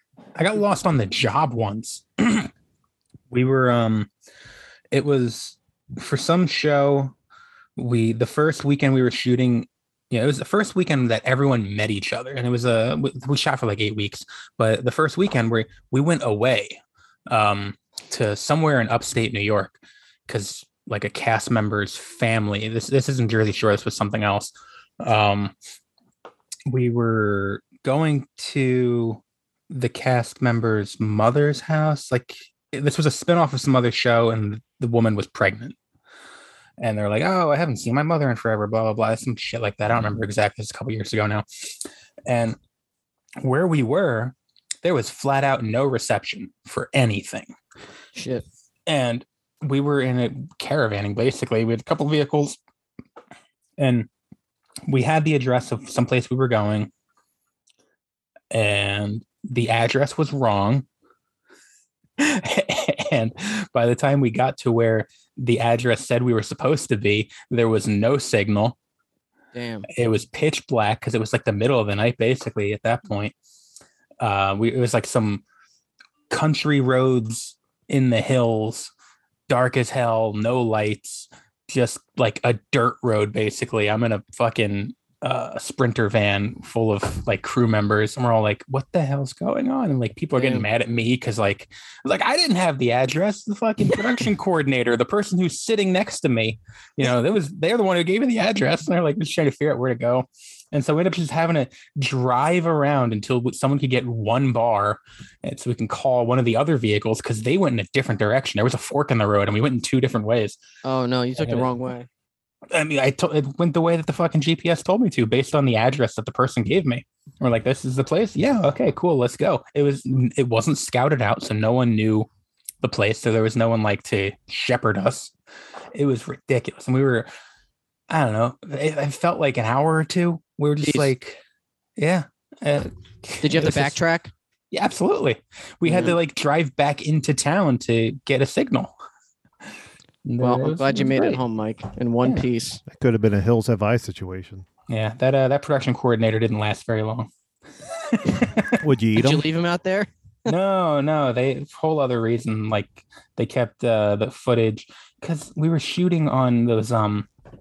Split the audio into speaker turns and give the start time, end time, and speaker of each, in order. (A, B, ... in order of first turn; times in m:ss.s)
0:00.4-0:02.5 A
0:03.3-0:04.1 A
0:04.9-0:07.1 A
0:07.8-0:25.5 A
0:26.7-0:35.8 A
0:36.8-0:41.4 A
0:42.3-0:42.6 A
0:43.4-0:47.5 A
0:48.1-0:48.4 B
0:48.9-0:52.6 A
0:53.8-0:54.1 A
0:54.9-0:56.9 A
0:58.5-1:00.8 A
1:02.2-1:08.7 A
1:09.5-1:09.9 B
1:10.0-1:13.3 A
1:14.2-1:15.4 A
1:16.3-1:18.9 A
1:19.5-1:50.6 A
1:30.4-1:30.7 B
1:50.8-1:52.1 B
1:51.4-1:51.7 A
1:52.7-2:02.3 A
2:02.8-2:05.3 A
2:05.9-2:07.3 A
2:08.1-2:11.4 A
2:10.8-2:11.1 B
2:12.0-2:14.0 A
2:13.4-2:14.3 B
2:14.7-2:18.9 A
2:15.8-2:16.2 B
2:20.2-2:21.4 A
2:20.4-2:22.8 B
2:22.9-2:24.6 C
2:24.9-2:27.3 A
2:28.0-2:28.8 A
2:28.8-2:29.4 C
2:29.2-2:30.1 B
2:30.5-2:37.3 A